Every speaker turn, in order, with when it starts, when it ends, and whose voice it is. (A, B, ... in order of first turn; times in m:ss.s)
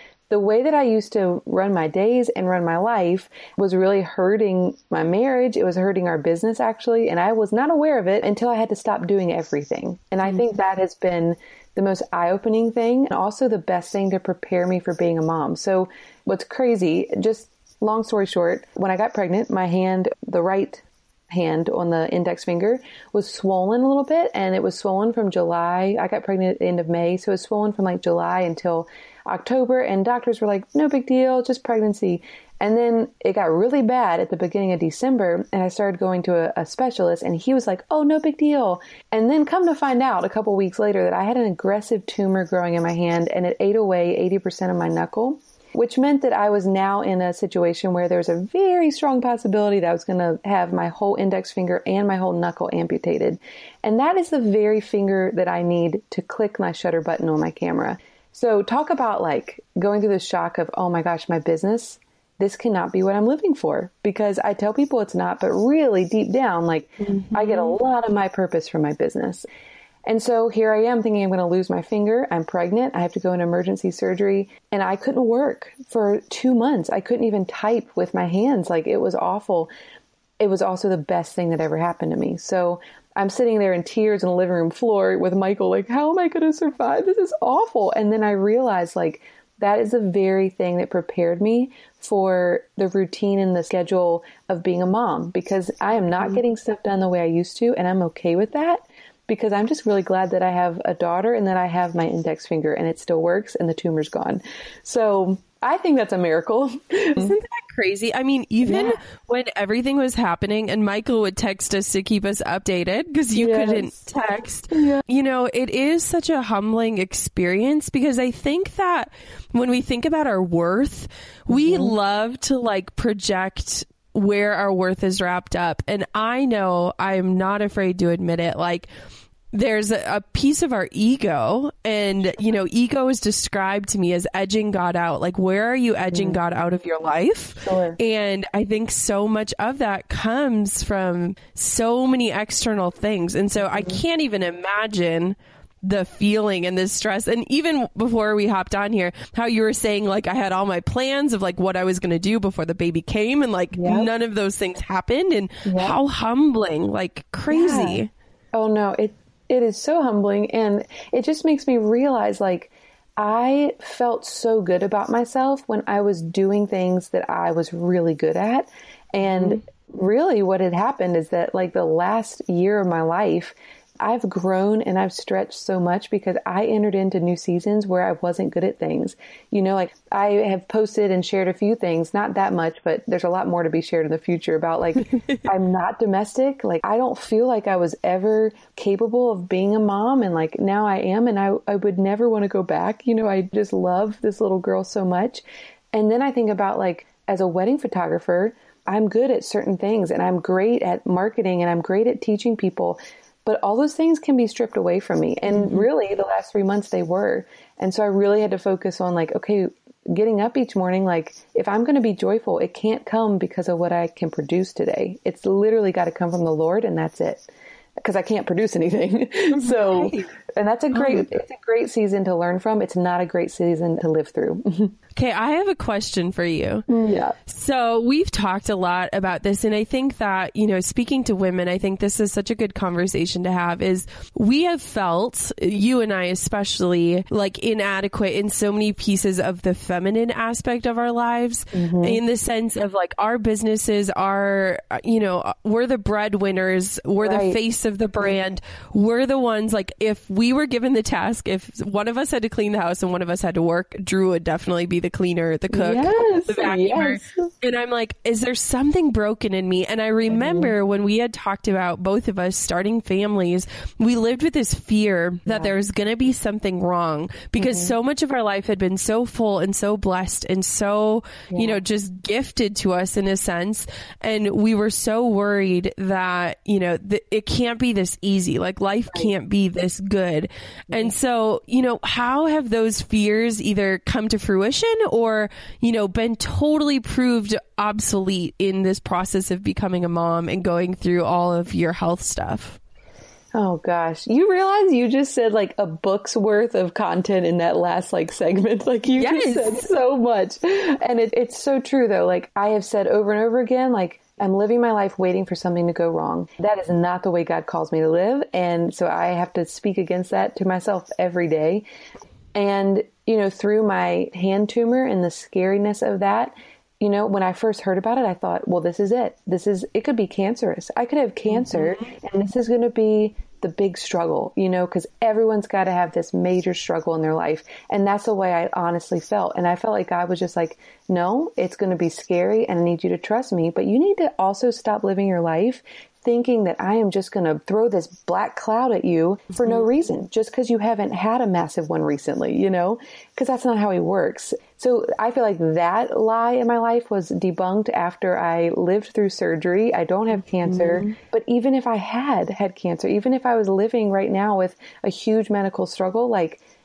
0:00.3-1:09.4 A
1:07.0-1:07.8 B
1:10.0-1:19.7 A
1:20.4-1:47.4 A
1:47.2-2:08.9 B
1:48.6-1:49.0 A
1:53.4-1:53.9 A
1:54.7-1:55.0 A
2:01.5-2:02.0 A
2:09.5-2:38.1 B
2:16.1-2:16.4 A
2:17.6-2:18.0 A
2:23.6-2:24.0 A
2:33.7-2:34.1 A
2:35.6-2:36.0 A
2:37.5-2:38.0 A
2:38.5-3:37.5 A
2:49.4-2:49.6 B
3:05.1-3:05.4 B
3:38.0-3:45.0 A
3:39.5-3:40.3 B
3:40.9-3:41.3 B
3:45.1-3:46.8 B
3:46.9-3:47.4 A
3:47.5-4:52.8 B
4:01.7-4:02.2 A
4:07.2-4:07.6 A
4:15.7-4:17.5 A
4:20.3-4:20.7 A
4:27.6-4:28.0 A
4:31.5-4:31.8 A
4:53.5-5:11.8 A
4:59.1-4:59.9 B
5:12.5-5:56.6 A
5:21.6-5:22.1 B
5:39.6-5:39.8 B
5:50.6-5:51.2 B